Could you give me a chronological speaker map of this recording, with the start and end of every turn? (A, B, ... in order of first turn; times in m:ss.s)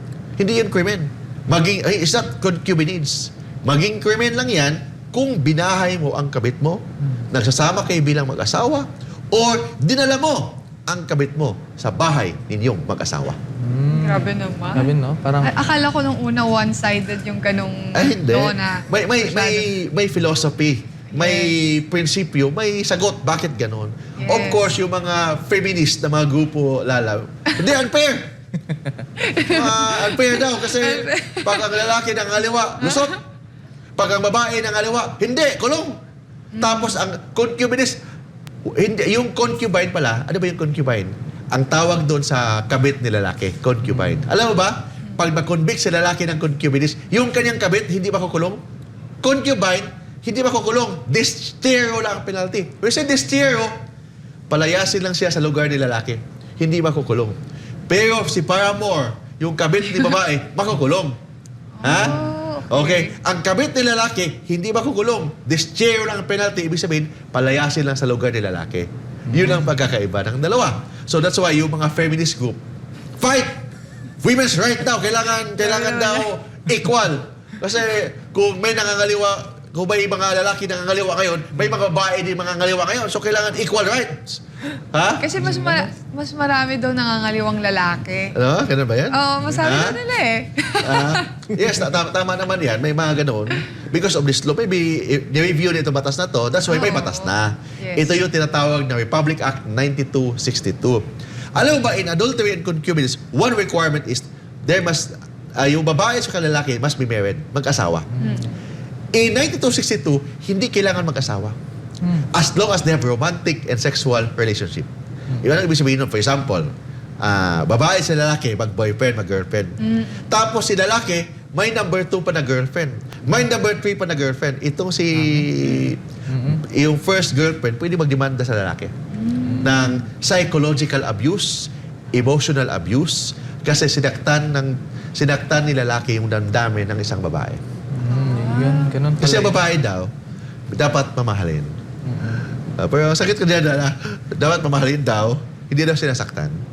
0:00.4-0:13.4 A
0:13.6-0:15.6 B
0:13.9-0:14.9 C
0:15.4-0:19.7 C
0:17.9-0:28.2 A
0:21.1-0:21.5 C
0:24.2-0:24.6 C
0:29.2-0:31.8 C
0:29.4-0:33.2 A
0:32.8-0:33.1 C
0:34.0-0:36.0 A
0:36.5-0:37.0 C
0:36.6-0:38.0 A
0:38.7-0:48.6 A
0:49.2-0:53.8 A
0:54.5-0:57.4 A
0:57.9-1:01.2 A
1:01.8-1:03.1 C
1:01.8-1:12.6 A
1:09.3-1:09.7 B
1:13.2-1:13.6 A
1:14.2-1:24.4 A
1:15.6-1:16.3 C
1:24.9-1:25.6 A
1:25.2-1:28.4 C
1:25.4-1:25.8 B
1:28.3-1:30.0 A
1:29.1-1:31.4 C
1:30.8-1:48.1 A
1:36.7-1:38.2 C
1:48.2-1:48.4 B
1:48.2-1:48.5 C
1:49.1-1:51.6 A
1:52.3-1:54.9 A
1:55.4-1:56.7 A
1:57.2-2:08.9 A
1:59.8-2:00.2 C
2:05.2-2:05.5 B
2:06.3-2:06.6 B
2:09.1-2:10.0 C
2:09.4-2:09.7 B
2:09.6-2:17.6 A
2:17.9-2:19.6 B
2:18.0-2:19.0 C
2:19.2-2:20.1 A
2:20.7-2:21.7 A
2:22.0-2:22.4 B
2:22.8-2:26.6 A